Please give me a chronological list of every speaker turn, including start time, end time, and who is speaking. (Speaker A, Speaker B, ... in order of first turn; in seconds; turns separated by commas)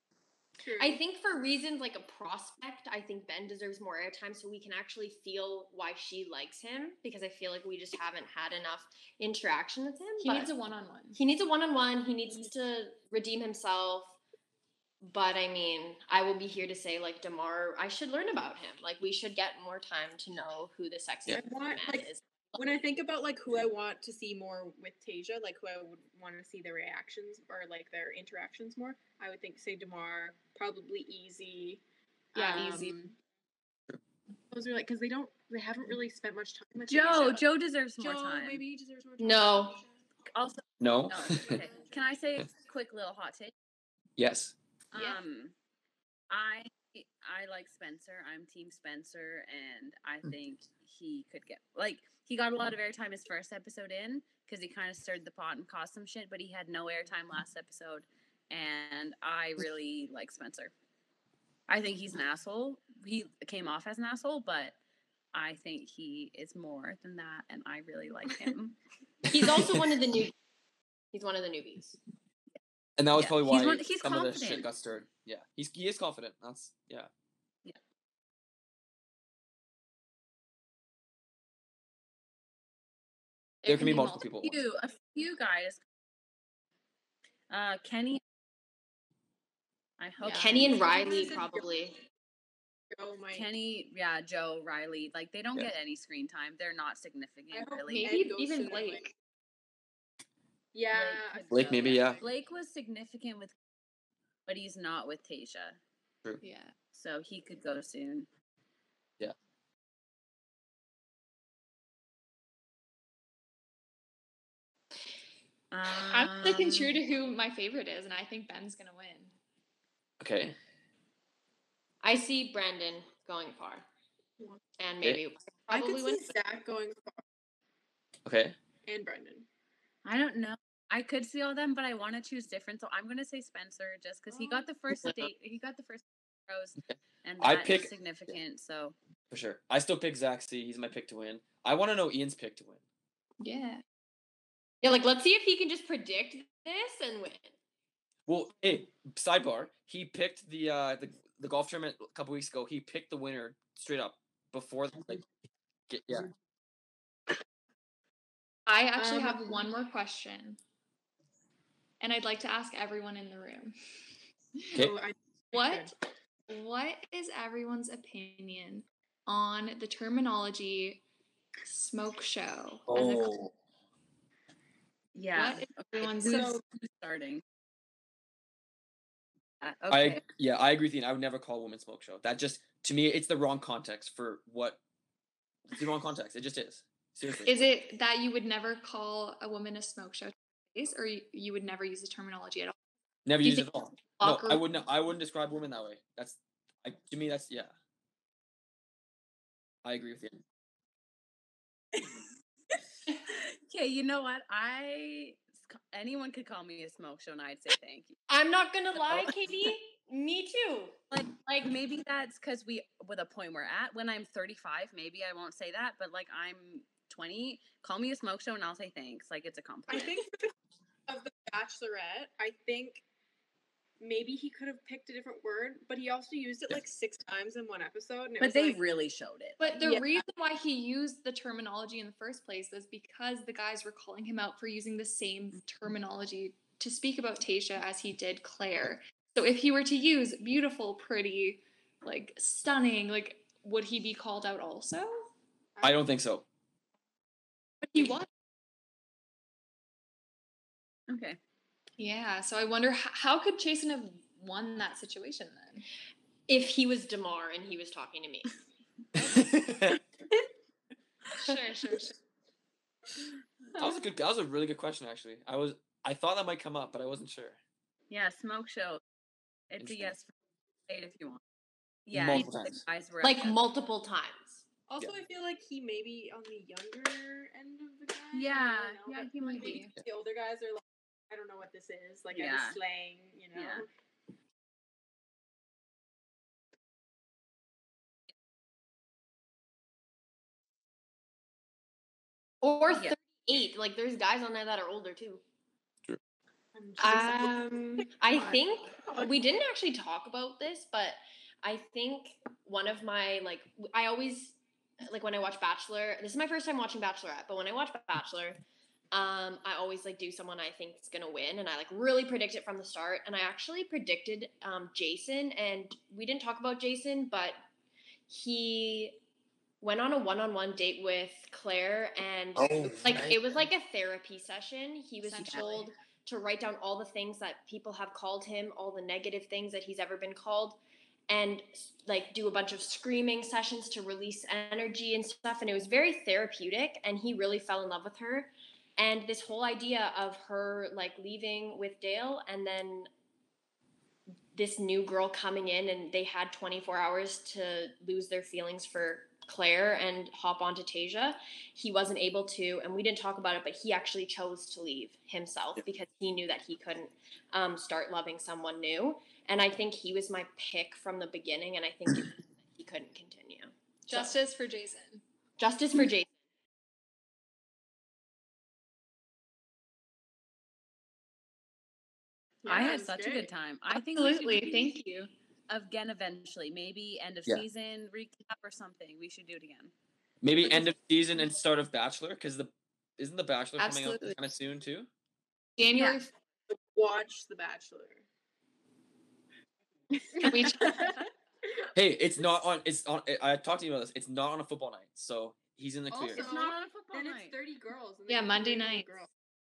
Speaker A: 0.6-1.0, Speaker B: 0.8-10.5, Speaker C: 10.2-11.2, Speaker B: 11.1-14.2, Speaker B: 15.0-22.6, Speaker A: 21.3-31.8, Speaker A: 32.3-33.1, Speaker C: 32.4-33.0, Speaker D: 32.4-32.8, Speaker A: 34.5-37.5, Speaker D: 36.9-38.6, Speaker A: 38.0-40.0, Speaker B: 39.2-39.8, Speaker D: 40.3-43.5, Speaker E: 40.8-41.6, Speaker A: 41.4-42.1, Speaker E: 44.2-44.5, Speaker D: 44.9-45.5, Speaker C: 44.9-45.2, Speaker D: 46.3-60.7, Speaker D: 61.7-64.8, Speaker D: 65.3-68.8, Speaker B: 69.3-70.3, Speaker B: 71.1-72.0, Speaker E: 73.0-77.1, Speaker D: 73.1-74.7, Speaker C: 83.6-84.3, Speaker E: 83.6-84.6, Speaker D: 84.4-85.8, Speaker D: 87.5-88.2, Speaker D: 90.0-91.3, Speaker C: 90.2-90.7, Speaker B: 90.4-92.0, Speaker A: 90.7-91.6, Speaker A: 92.9-93.5, Speaker D: 93.3-98.2, Speaker A: 97.5-99.0, Speaker C: 97.9-99.1, Speaker A: 100.7-102.3, Speaker D: 100.9-103.5, Speaker E: 101.5-102.2, Speaker D: 104.5-105.8, Speaker C: 106.4-106.7, Speaker D: 106.9-108.3, Speaker D: 115.7-117.0, Speaker C: 115.9-119.3, Speaker E: 120.2-120.5, Speaker B: 122.0-123.9, Speaker B: 124.8-126.3, Speaker A: 125.7-127.2, Speaker E: 128.2-128.6, Speaker A: 128.8-129.5, Speaker D: 130.0-138.9, Speaker A: 134.3-134.7, Speaker E: 137.4-137.9, Speaker E: 139.3-142.8, Speaker C: 143.4-143.8, Speaker B: 144.8-147.5, Speaker E: 148.3-155.2, Speaker E: 155.9-156.3, Speaker C: 158.7-160.6, Speaker A: 158.9-159.6, Speaker C: 162.0-163.7, Speaker A: 164.7-165.9, Speaker C: 165.5-165.9, Speaker C: 166.5-171.0, Speaker C: 171.7-173.3, Speaker E: 172.9-173.5, Speaker D: 175.1-177.4, Speaker C: 175.3-176.5, Speaker A: 176.2-176.6, Speaker D: 179.6-180.2, Speaker E: 179.9-184.8, Speaker E: 185.7-187.7, Speaker C: 187.4-192.8, Speaker E: 193.2-197.7, Speaker C: 193.4-194.6, Speaker E: 199.8-200.4, Speaker D: 203.3-208.2, Speaker B: 208.3-211.0, Speaker D: 211.1-220.2, Speaker A: 219.9-220.5, Speaker A: 221.1-223.0, Speaker A: 224.0-228.8, Speaker D: 228.4-229.6, Speaker C: 229.6-245.3, Speaker A: 229.8-230.2, Speaker A: 245.8-246.0, Speaker E: 245.8-246.4, Speaker C: 247.8-248.3, Speaker D: 251.1-251.4, Speaker C: 252.0-255.8, Speaker B: 256.5-258.6, Speaker E: 259.1-260.0, Speaker C: 261.3-262.1, Speaker E: 263.8-267.6, Speaker D: 268.1-269.0, Speaker D: 269.7-270.3, Speaker E: 269.8-270.1, Speaker D: 270.9-271.4, Speaker D: 272.1-273.6, Speaker E: 272.1-272.8, Speaker B: 273.2-274.6, Speaker A: 274.9-283.9, Speaker D: 278.3-279.8, Speaker C: 279.3-279.9, Speaker D: 282.3-282.8, Speaker D: 283.5-283.8, Speaker B: 292.6-295.4, Speaker A: 296.7-299.3, Speaker B: 297.0-317.6, Speaker B: 318.3-319.2, Speaker B: 319.8-343.1, Speaker E: 322.6-323.5, Speaker C: 325.2-325.9, Speaker B: 344.5-364.3, Speaker C: 364.1-365.2, Speaker B: 365.6-366.3, Speaker A: 372.6-373.5, Speaker D: 372.6-374.9, Speaker C: 373.9-375.3, Speaker D: 375.7-379.9, Speaker E: 380.4-385.1, Speaker C: 383.8-384.4, Speaker C: 385.8-386.3, Speaker D: 385.9-386.2, Speaker A: 386.7-388.2, Speaker C: 390.3-391.2, Speaker A: 390.4-391.0, Speaker D: 390.5-391.1, Speaker E: 391.9-396.4, Speaker A: 396.1-399.3, Speaker D: 396.3-397.6, Speaker C: 398.3-399.1